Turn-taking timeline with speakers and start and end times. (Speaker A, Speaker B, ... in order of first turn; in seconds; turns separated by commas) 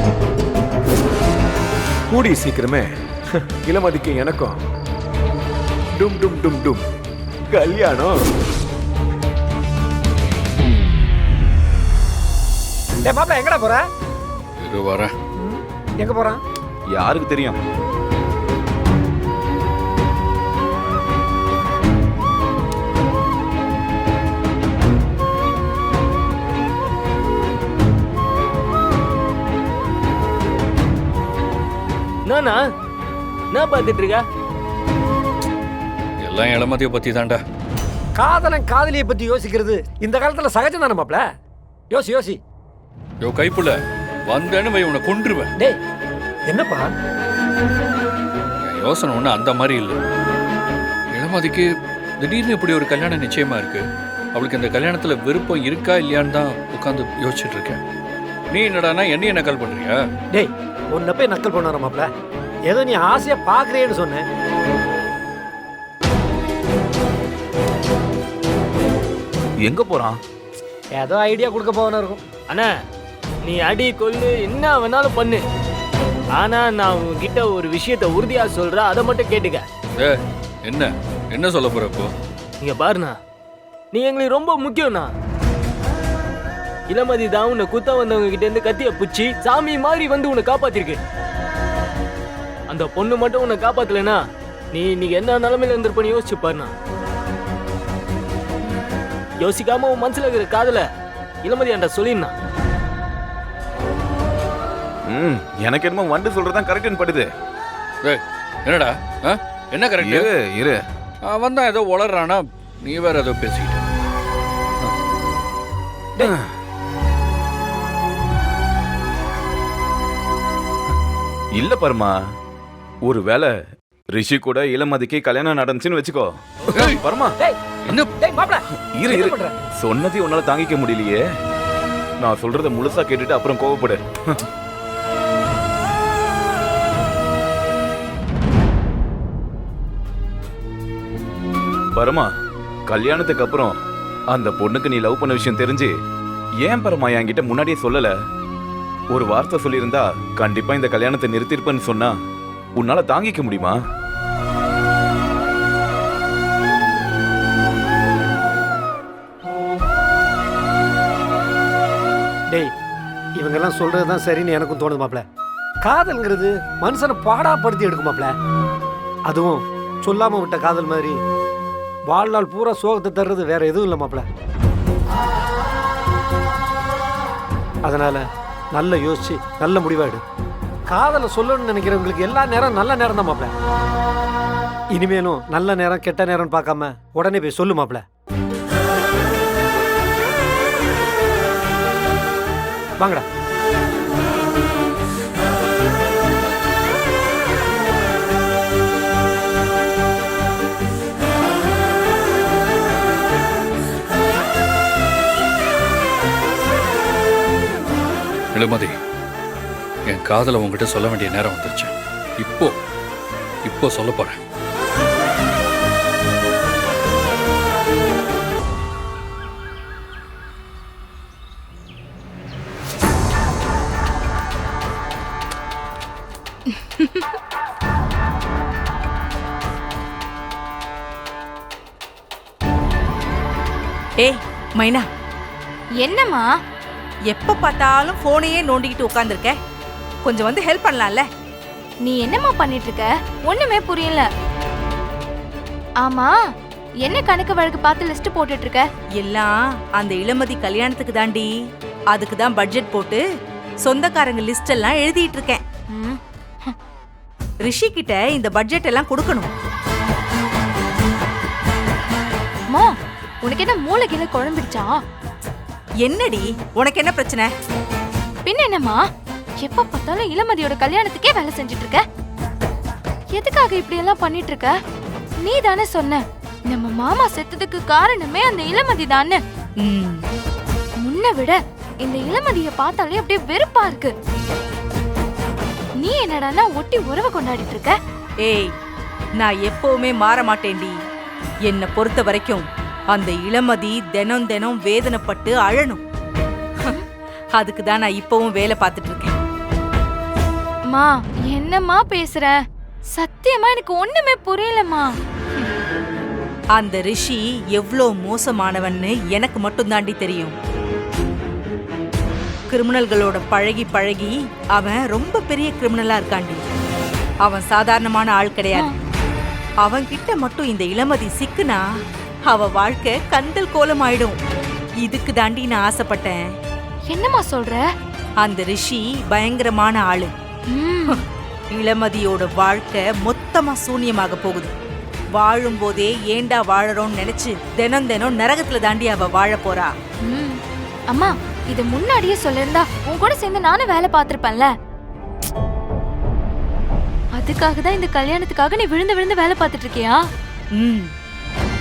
Speaker A: 2.1-2.9, Speaker A: 3.6-4.6, Speaker A: 6.0-6.8, Speaker A: 7.5-8.2, Speaker B: 13.0-13.8, Speaker C: 14.6-15.1, Speaker B: 15.4-16.4, Speaker D: 16.9-17.6, Speaker E: 32.2-32.6, Speaker E: 33.5-34.2, Speaker C: 36.2-37.4, Speaker B: 38.1-41.2, Speaker B: 41.9-42.4, Speaker C: 43.2-45.5, Speaker B: 46.5-46.9, Speaker C: 48.6-50.0, Speaker C: 51.1-51.7, Speaker C: 52.2-57.8, Speaker C: 58.5-60.0, Speaker B: 60.3-62.1, Speaker B: 62.7-64.2, Speaker D: 69.6-70.2, Speaker B: 71.0-72.2, Speaker E: 73.4-75.4, Speaker E: 76.4-79.7, Speaker C: 80.0-82.1, Speaker E: 82.6-83.2, Speaker E: 83.9-85.1, Speaker E: 86.9-91.0, Speaker E: 92.7-94.2, Speaker E: 94.7-96.7, Speaker E: 99.4-100.8, Speaker E: 101.4-102.3, Speaker D: 105.0-107.3, Speaker C: 108.0-110.3, Speaker D: 110.0-110.8, Speaker C: 111.2-113.8, Speaker D: 116.2-116.5, Speaker D: 121.5-122.1, Speaker D: 123.0-123.5, Speaker D: 124.1-127.3, Speaker C: 126.7-127.0, Speaker C: 127.8-128.1, Speaker B: 128.2-129.5, Speaker D: 128.9-131.2, Speaker D: 132.2-134.4, Speaker D: 141.9-142.3, Speaker D: 142.9-143.7, Speaker D: 144.3-145.9, Speaker D: 146.6-148.1, Speaker D: 149.1-152.1, Speaker D: 152.8-153.8, Speaker B: 163.4-165.2, Speaker B: 165.8-168.3, Speaker B: 169.3-171.1, Speaker B: 172.1-174.2, Speaker B: 177.8-180.2, Speaker B: 180.9-183.5, Speaker B: 184.9-188.0, Speaker C: 208.5-208.9, Speaker C: 210.1-212.8, Speaker C: 213.6-214.4, Speaker F: 234.2-235.1, Speaker G: 236.0-236.5, Speaker F: 237.3-239.5, Speaker F: 240.2-241.2, Speaker G: 242.0-244.2, Speaker G: 246.0-246.4, Speaker G: 247.0-248.8, Speaker F: 249.2-251.5, Speaker F: 252.1-253.2, Speaker F: 253.8-255.6, Speaker G: 255.9-256.7, Speaker F: 257.6-259.5, Speaker G: 263.4-265.0, Speaker F: 266.0-267.5, Speaker G: 268.4-269.0, Speaker G: 269.6-272.0, Speaker G: 273.3-274.7, Speaker G: 275.4-279.4, Speaker F: 279.8-280.2, Speaker G: 281.0-284.1, Speaker G: 286.0-287.9, Speaker F: 288.4-288.7, Speaker F: 289.4-290.9, Speaker F: 291.7-296.0, Speaker F: 297.6-299.4, Speaker G: 300.9-302.6, Speaker G: 303.1-305.1, Speaker F: 306.7-310.5, Speaker F: 312.7-316.6, Speaker F: 317.4-318.9, Speaker F: 319.8-321.8, Speaker F: 322.5-324.3, Speaker F: 325.0-326.4, Speaker G: 327.1-327.8, Speaker F: 328.4-330.3, Speaker G: 330.7-331.2, Speaker F: 331.7-334.7, Speaker F: 335.4-339.9, Speaker G: 340.3-344.7, Speaker G: 347.4-350.2, Speaker F: 350.8-351.1